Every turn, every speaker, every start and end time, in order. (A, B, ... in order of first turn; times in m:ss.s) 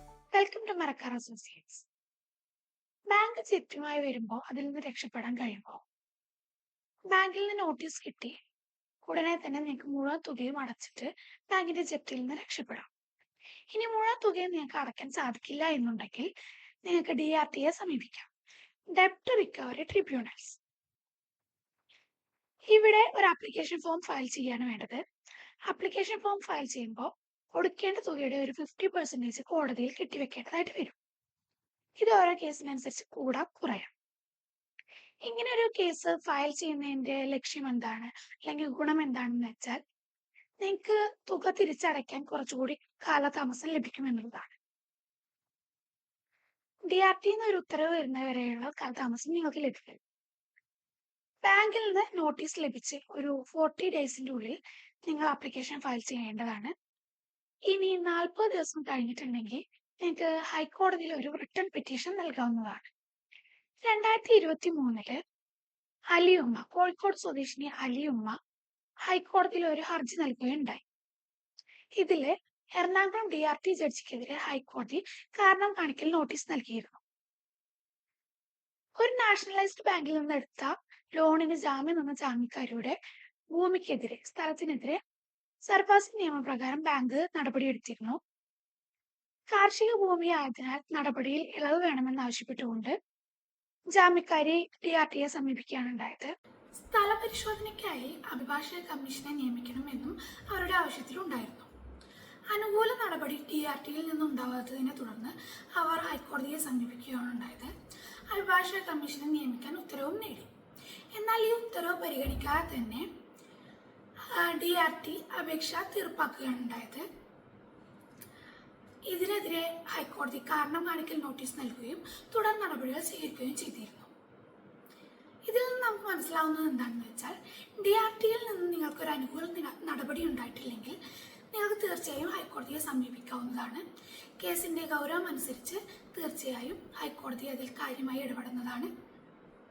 0:00.3-0:01.9 A
0:03.1-0:05.8 A
0:07.1-0:08.3 A
0:09.0-0:12.9 A
0:13.7-0:16.3 A
0:16.8-0:18.3 A
0:18.9-0:20.6 A
0:22.7-0:25.0 A
0:25.7-0:30.9 A
0:32.0-0:33.9 A
0:35.2-0:39.8 A
0:40.6-0:44.6 A
0:46.9-0:50.0 A
0:51.4-0:56.7 A
0:57.7-1:02.9 A
1:03.8-1:05.2 A
1:06.1-1:08.4 A
1:09.1-1:10.8 A
1:12.0-1:17.0 A
1:19.0-1:23.0 A
1:23.5-1:25.0 A
1:25.6-1:28.2 A
1:29.5-1:32.9 A
1:33.9-1:41.7 A
1:42.5-1:47.7 A
1:48.3-1:50.5 A
1:51.1-1:53.1 A
1:54.3-1:57.0 A
1:59.1-2:04.1 A
2:05.5-2:11.0 A
2:11.5-2:13.8 A
2:14.4-2:18.9 A